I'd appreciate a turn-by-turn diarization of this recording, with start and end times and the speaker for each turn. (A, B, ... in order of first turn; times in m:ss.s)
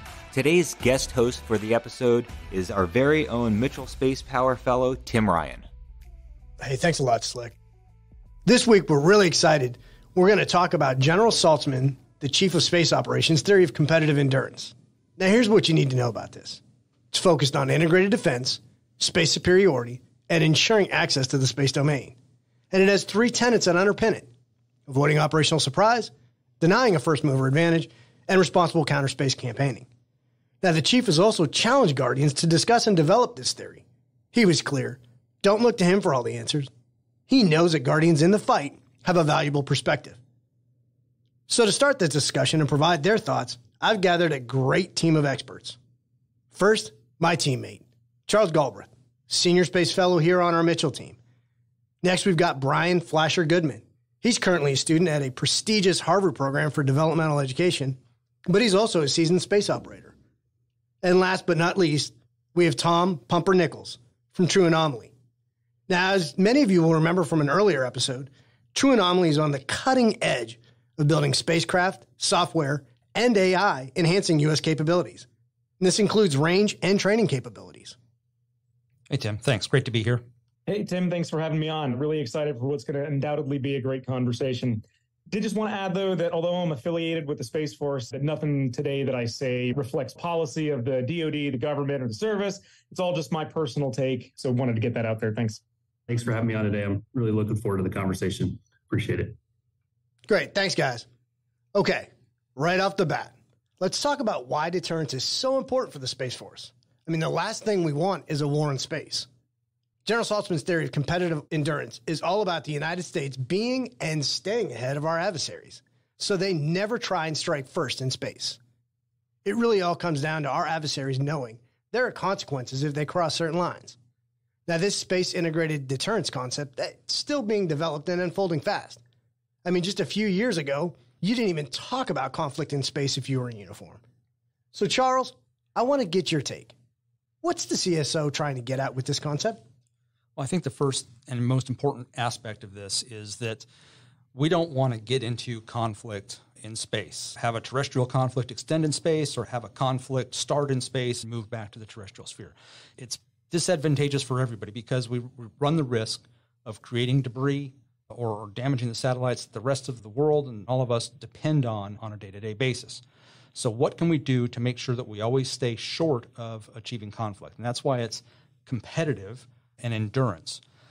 0:00.3-0:05.7 A
0:06.6-0:07.6 B
0:08.4-0:16.6 B
0:17.1-0:22.2 B
0:22.7-0:24.3 B
0:24.9-0:29.9 B
0:30.6-0:36.7 B
0:37.3-0:40.2 B
0:41.5-0:45.8 B
0:46.5-0:51.2 B
0:52.0-1:00.1 B
1:01.0-1:05.1 B
1:05.9-1:15.2 B
1:15.8-1:18.0 B
1:19.1-1:20.2 C
1:20.7-1:35.6 D
1:36.1-1:39.4 E
1:40.3-1:41.0 B
1:41.7-1:49.3 B
1:50.0-1:58.6 B
1:59.4-2:04.0 B
2:04.7-2:09.0 B
2:09.6-2:14.0 B
2:14.7-2:16.7 B
2:17.4-2:19.6 B
2:20.4-2:23.6 C
2:24.3-2:43.0 C
2:43.5-2:50.6 C